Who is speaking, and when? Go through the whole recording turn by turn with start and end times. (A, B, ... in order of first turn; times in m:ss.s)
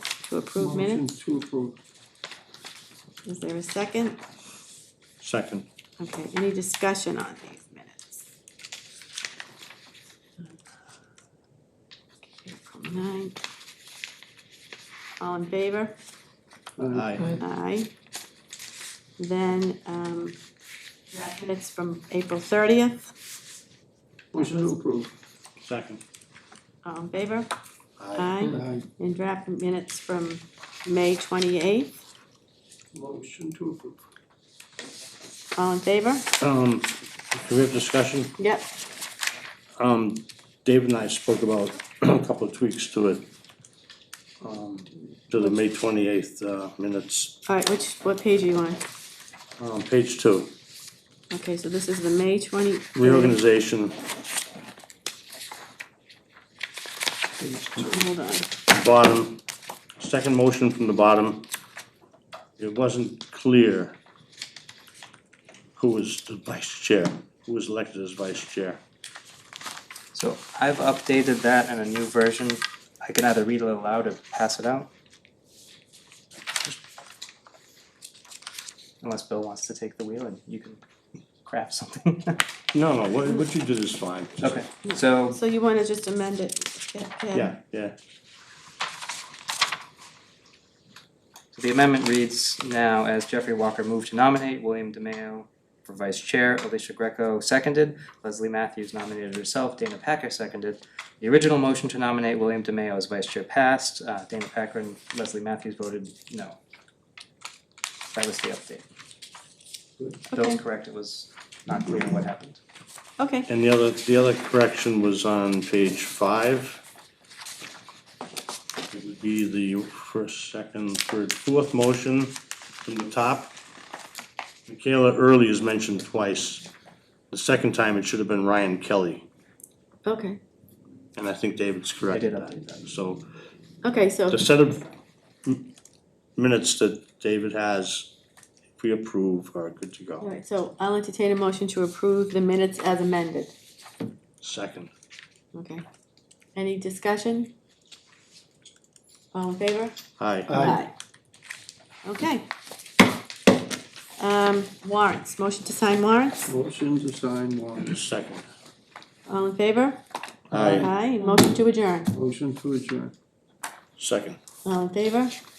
0:00.2-0:01.0 A
0:00.6-0:01.8 B
0:03.2-0:04.2 A
0:05.2-0:05.7 C
0:06.0-0:08.2 A
0:12.3-0:13.4 A
0:15.2-0:16.0 A
0:16.8-0:17.2 B
0:16.9-0:17.4 C
0:17.3-0:17.9 A
0:19.2-0:20.4 A
0:21.1-0:23.1 A
0:24.3-0:25.1 B
0:25.6-0:26.0 C
0:26.8-0:27.5 A
0:28.0-0:28.4 C
0:28.1-0:32.0 A
0:28.4-0:28.9 B
0:32.9-0:34.0 B
0:35.6-0:36.3 A
0:36.4-0:38.4 C
0:38.4-0:38.7 A
0:39.8-0:43.3 C
0:44.4-0:47.4 C
0:47.5-0:48.8 A
0:49.6-0:50.5 C
0:51.3-0:53.4 A
0:53.0-0:54.0 C
0:57.8-0:58.5 A
0:58.7-0:59.4 C
1:00.0-1:01.5 C
1:02.6-1:04.0 C
1:05.8-1:08.8 C
1:10.1-1:14.9 D
1:16.5-1:16.8 C
1:19.0-1:20.8 D
1:21.5-1:22.4 D
1:22.7-1:24.6 C
1:24.4-1:25.4 D
1:24.8-1:27.5 A
1:27.3-1:28.0 C
1:31.5-1:46.6 D
1:48.1-1:48.9 D
1:50.3-1:52.6 D
1:50.3-1:50.6 A
1:53.2-1:53.5 A
1:53.5-1:56.8 C
1:58.9-2:03.5 C
2:04.7-2:06.7 C
2:07.3-2:09.3 C
2:10.0-2:10.4 A
2:11.2-2:13.2 C
2:12.1-2:12.5 D
2:13.8-2:14.4 A
2:14.3-2:14.9 C
2:16.4-2:18.1 C
2:18.8-2:20.3 C
2:20.2-2:23.5 A
2:24.4-2:24.9 C
2:25.5-2:25.8 A
2:26.6-2:27.5 A
2:29.3-2:30.0 A
2:30.2-2:30.7 C
2:30.5-2:30.9 A
2:30.5-2:30.8 B
2:32.0-2:32.5 A
2:34.2-2:36.5 A
2:36.5-2:37.9 B
2:37.8-2:38.5 C
2:39.3-2:40.0 A
2:40.5-2:40.9 C
2:40.5-2:40.9 B
2:40.7-2:42.1 A
2:42.1-2:43.1 B
2:44.0-2:44.4 C
2:44.6-2:45.4 A